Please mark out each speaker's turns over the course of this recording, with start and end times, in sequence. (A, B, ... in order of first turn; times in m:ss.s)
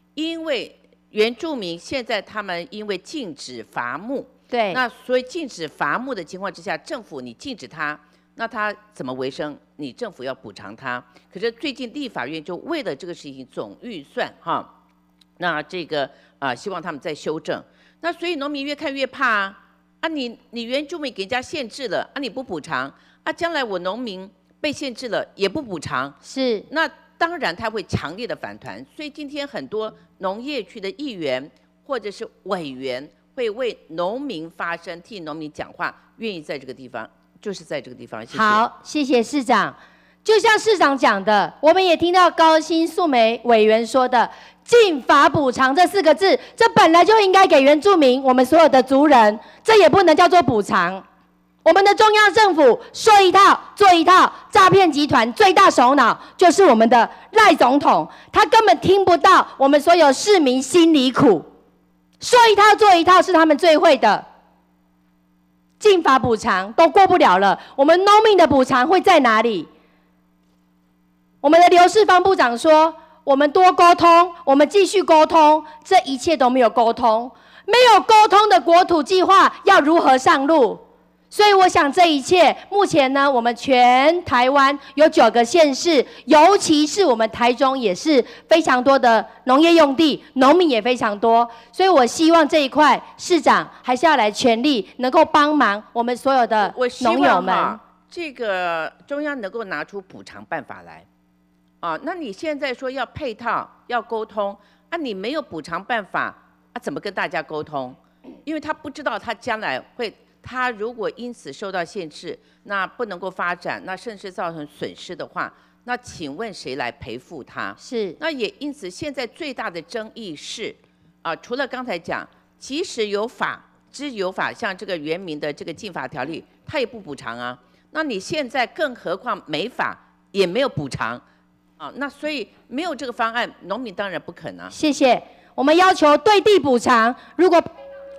0:00.1-0:14.7 A
0:04.5-0:04.8 B
0:15.4-0:26.2 A
0:26.2-0:26.7 B
0:26.7-0:38.6 A
0:38.3-0:51.0 B
0:51.6-1:01.4 B
1:02.2-1:04.2 B
1:05.8-1:09.7 B
1:11.4-1:37.8 B
1:36.6-1:41.0 A
1:41.8-2:11.2 A
1:57.8-1:58.2 B
2:11.8-2:14.7 A
2:14.7-2:17.6 B